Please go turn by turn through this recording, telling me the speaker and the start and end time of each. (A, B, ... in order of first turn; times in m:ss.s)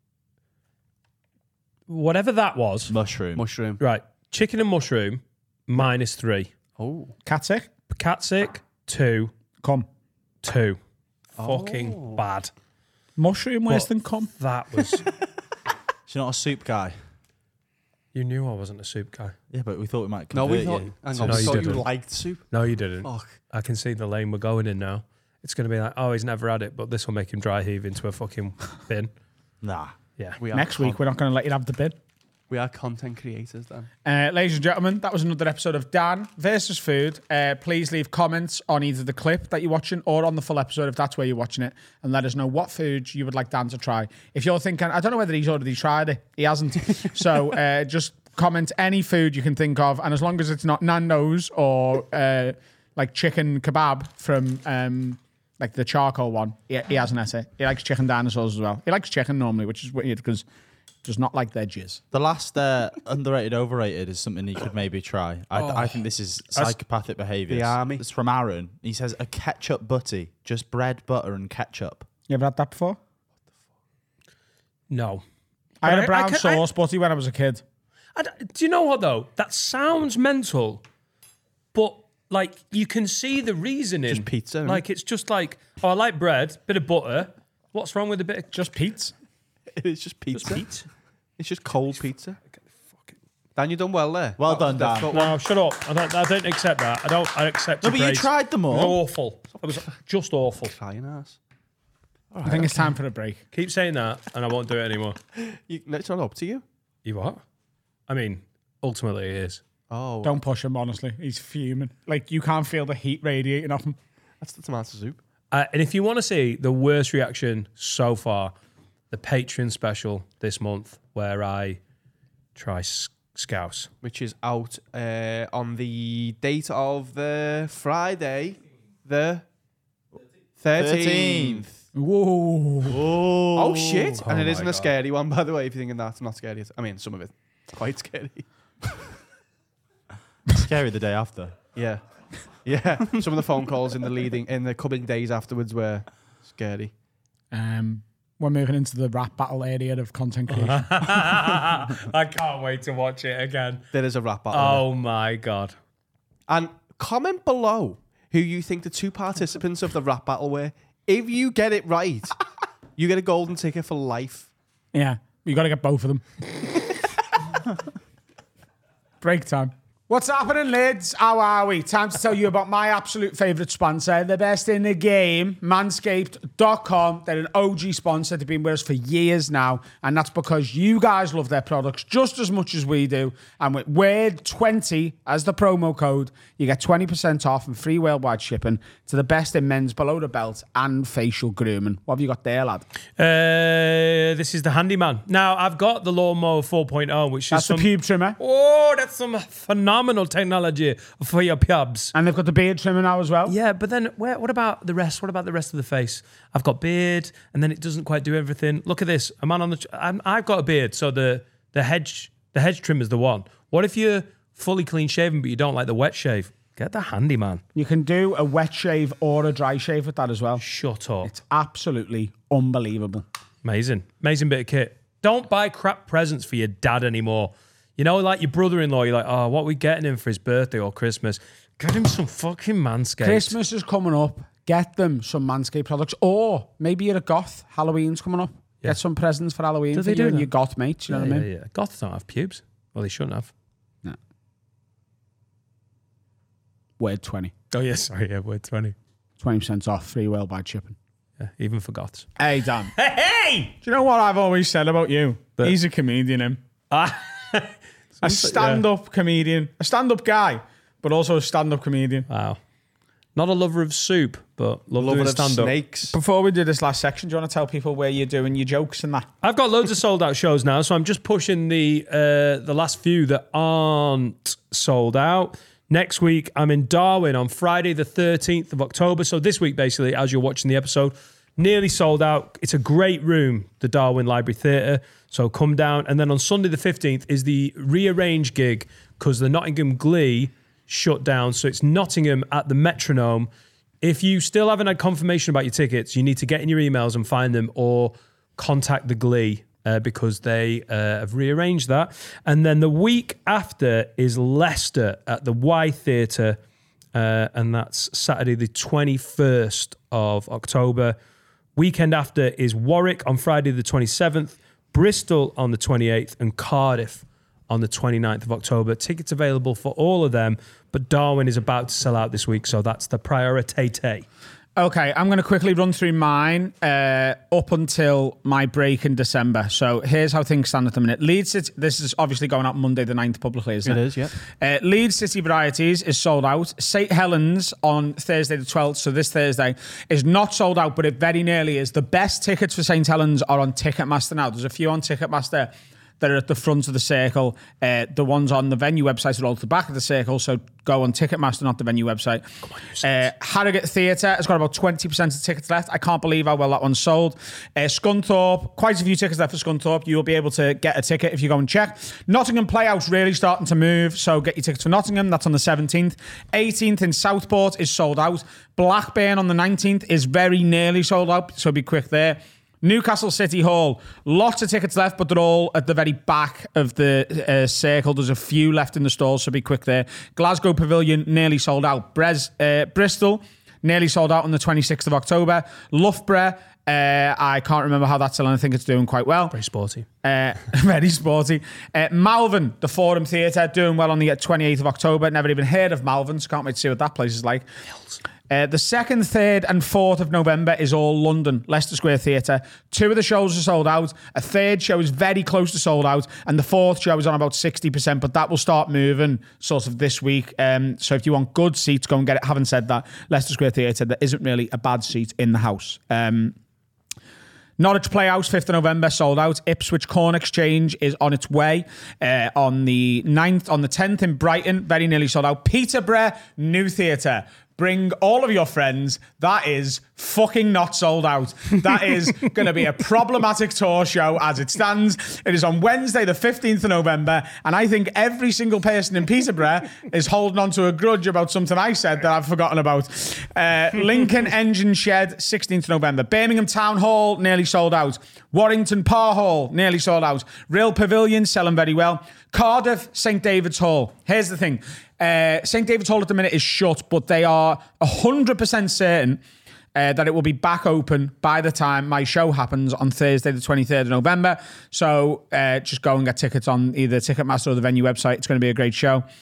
0:01.9-0:02.9 A
0:02.9-0:03.4 B
0:03.4-0:03.8 C
0:03.8-0:06.5 A
0:06.8-0:07.2 C
0:07.3-0:07.7 D
0:07.9-0:09.3 A
0:09.6-0:09.9 D
0:10.4-0:10.8 A
0:11.4-0:12.5 A
0:11.4-0:12.2 C
0:13.2-0:14.3 D
0:13.7-0:15.1 A
0:16.1-0:17.0 B
0:18.1-0:19.4 A
0:19.5-0:21.9 B
0:20.3-0:22.5 C
0:21.2-0:21.9 A
0:22.5-0:29.1 A
0:23.0-0:23.4 C
0:29.6-0:30.0 B
0:30.4-0:31.0 C
0:30.5-0:32.0 D
0:32.5-0:33.9 C
0:34.0-1:00.4 D
1:01.0-1:02.0 D
1:02.1-1:12.1 B
1:07.5-1:08.0 C
1:12.3-1:13.0 D
1:14.9-1:15.2 A
1:15.8-1:17.6 D
1:15.8-1:16.6 A
1:18.2-1:20.8 A
1:21.7-1:28.5 A
1:24.1-1:24.8 C
1:28.5-1:29.1 D
1:29.8-1:30.7 C
1:30.3-1:30.9 A
1:31.4-1:32.4 C
1:32.5-1:33.2 A
1:33.6-1:35.4 C
1:34.4-1:35.2 B
1:35.1-1:40.7 A
1:37.8-1:39.0 B
1:40.7-1:41.4 C
1:42.3-1:42.9 C
1:42.4-1:43.4 D
1:43.5-1:45.2 A
1:45.4-1:46.6 C
1:47.0-1:47.4 A
1:48.1-1:49.6 A
1:49.9-1:50.4 C
1:50.2-1:54.0 D
1:54.4-1:55.2 C
1:55.5-1:58.5 A
1:59.1-2:01.8 A
2:02.6-2:03.9 A
2:04.0-2:09.4 C
2:10.6-2:11.8 C
2:10.8-2:11.7 B
2:12.0-2:13.0 D
2:12.8-2:14.2 B
2:13.6-2:18.5 C
2:14.2-2:14.9 A
2:20.5-2:21.6 B
2:21.8-2:22.0 C
2:22.6-2:26.9 C
2:27.5-2:30.9 D
2:30.5-2:33.8 A
2:33.9-2:34.9 C
2:34.5-2:35.8 A
2:36.5-2:42.4 C
2:43.0-2:44.5 C
2:44.9-2:46.2 D
2:49.2-3:12.8 D
3:13.2-3:22.1 A
3:17.5-3:18.4 D
3:22.1-3:23.6 D
3:23.5-3:37.6 A
3:37.8-3:40.6 D
3:40.6-3:41.3 A
3:41.2-3:43.2 D
3:43.6-3:53.6 A
3:53.2-4:01.5 D
3:59.9-4:00.5 A
4:01.1-4:03.5 A
4:07.0-4:07.5 D
4:07.7-4:09.0 A
4:09.4-4:11.0 D
4:11.4-4:12.3 A
4:12.4-4:12.9 D
4:13.0-4:13.7 A
4:13.8-4:16.6 D
4:16.9-4:18.8 A
4:18.2-4:22.3 D
4:22.3-4:22.6 A
4:23.4-4:25.8 A
4:25.0-4:26.1 C
4:26.1-4:29.3 D
4:29.4-4:53.5 A
4:54.0-5:06.6 A
5:07.1-5:11.2 A
5:11.8-5:24.3 A
5:24.8-5:52.5 D
5:33.8-5:34.3 C
5:52.7-5:53.0 A
5:53.0-6:29.6 D
6:29.5-6:30.1 A
6:30.2-6:37.6 D
6:38.5-6:56.6 D
6:57.8-7:39.4 D
7:40.0-7:49.3 D